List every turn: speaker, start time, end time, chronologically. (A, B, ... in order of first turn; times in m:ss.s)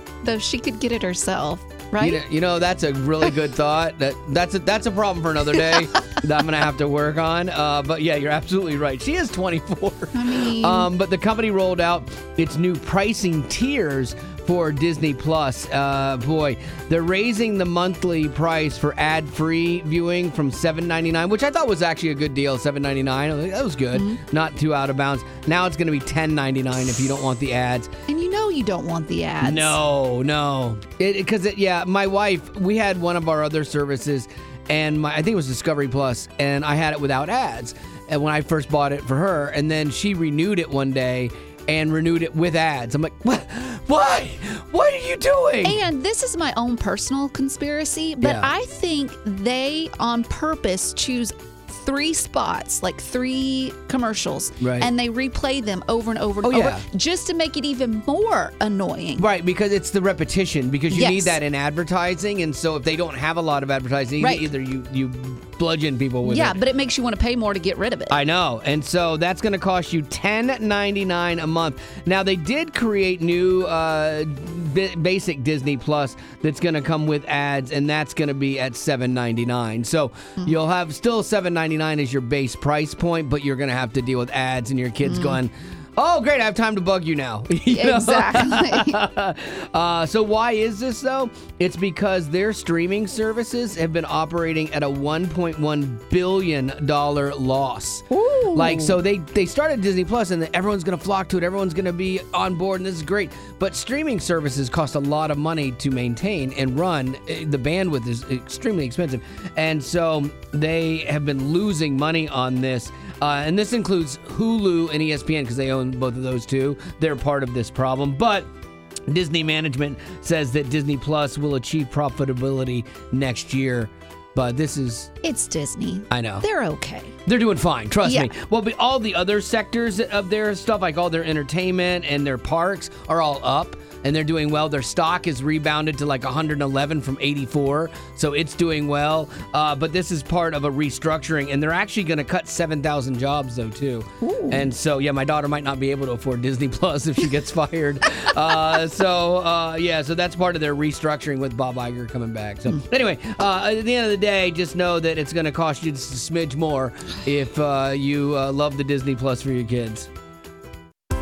0:00.2-0:02.2 A
0:02.0-0:27.9 B
0:10.1-0:10.9 A
0:23.9-0:24.2 A
0:28.1-0:29.8 A
0:29.4-0:45.8 B
0:45.6-0:59.2 A
0:48.2-0:48.5 B
0:54.6-0:54.9 B
0:56.4-0:56.8 B
0:59.2-1:06.6 B
1:00.9-1:01.4 A
1:04.2-1:04.5 A
1:06.2-1:08.2 A
1:08.1-1:58.5 B
1:25.0-1:25.4 A
1:27.7-1:29.0 A
1:38.1-1:39.0 A
1:59.1-2:05.1 B
2:05.2-2:07.2 A
2:06.1-2:06.4 B
2:07.3-2:40.1 B
2:08.0-2:08.3 A
2:24.2-2:24.7 A